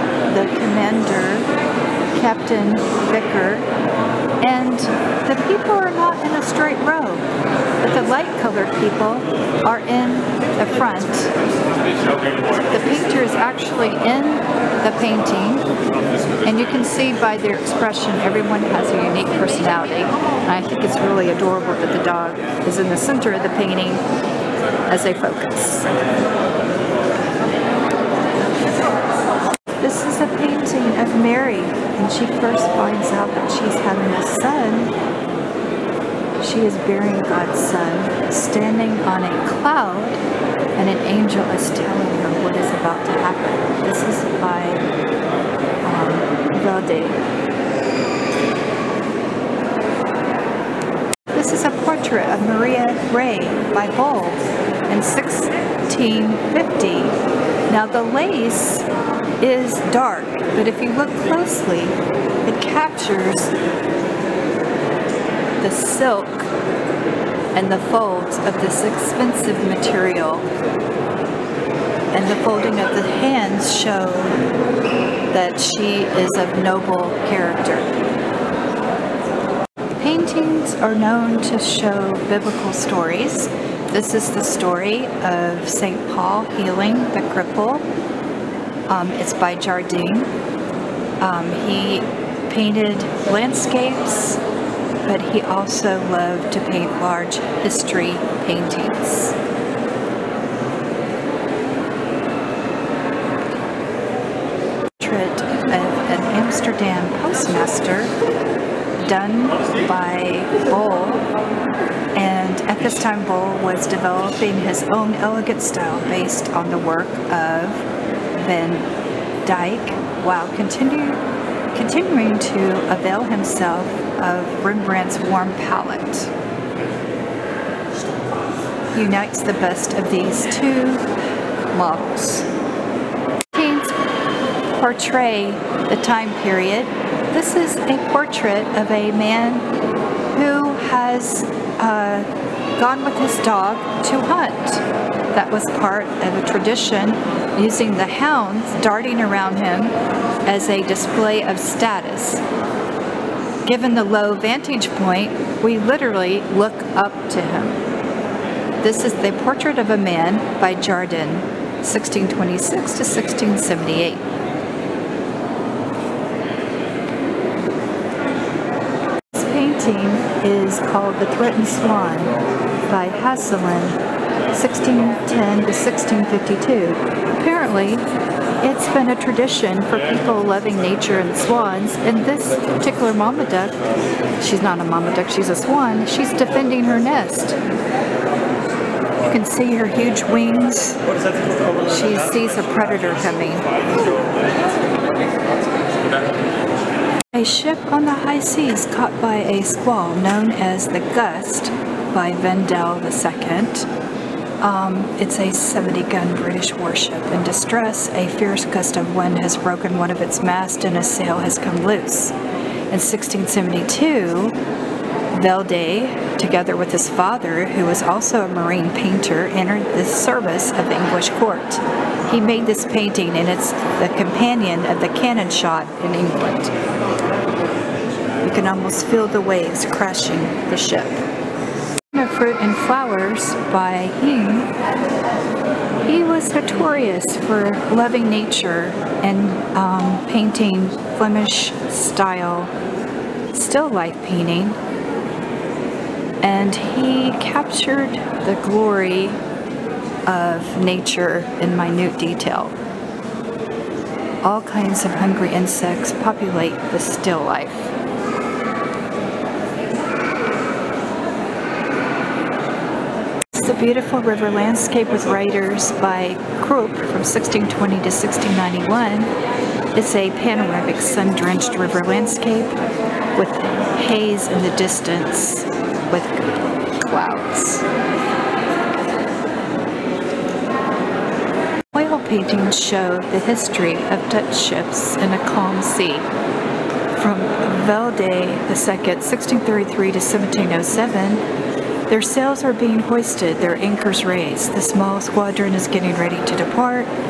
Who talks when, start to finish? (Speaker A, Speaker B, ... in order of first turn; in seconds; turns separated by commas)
Speaker A: 0.3-1.5, Speaker A: 2.1-3.7, Speaker A: 4.4-7.3, Speaker A: 7.8-11.3, Speaker A: 12.5-15.7, Speaker A: 16.4-24.0, Speaker A: 24.9-26.0, Speaker A: 29.8-34.9, Speaker A: 36.4-40.2, Speaker A: 40.8-44.8, Speaker A: 45.8-47.2, Speaker A: 51.3-57.2, Speaker A: 57.7-58.9, Speaker A: 59.4-63.5, Speaker A: 65.6-66.5, Speaker A: 67.5-70.5, Speaker A: 72.1-74.4, Speaker A: 75.3-77.9, Speaker A: 80.0-87.8, Speaker A: 88.9-90.3, Speaker A: 91.2-94.4, Speaker A: 95.0-99.3, Speaker A: 105.0-108.1, Speaker A: 109.0-111.3, Speaker A: 112.2-118.9, Speaker A: 119.5-126.3, Speaker A: 128.9-131.1, Speaker A: 131.7-132.5, Speaker A: 133.5-134.0, Speaker A: 134.7-139.7, Speaker A: 140.3-149.9, Speaker A: 150.5-152.4, Speaker A: 153.7-157.8, Speaker A: 158.8-164.3, Speaker A: 169.3-172.3, Speaker A: 172.9-174.0, Speaker A: 174.5-178.0, Speaker A: 178.6-183.8, Speaker A: 184.4-187.6, Speaker A: 189.3-191.0, Speaker A: 191.8-193.7, Speaker A: 197.3-203.9, Speaker A: 204.6-212.3, Speaker A: 212.9-214.6, Speaker A: 215.3-226.8, Speaker A: 228.4-231.2, Speaker A: 232.1-234.7, Speaker A: 236.1-242.7, Speaker A: 243.5-244.8, Speaker A: 246.4-249.4, Speaker A: 250.3-252.8, Speaker A: 254.4-257.9, Speaker A: 263.5-269.3, Speaker A: 269.9-272.8, Speaker A: 273.4-277.9, Speaker A: 281.9-286.3, Speaker A: 287.2-291.4, Speaker A: 292.1-297.1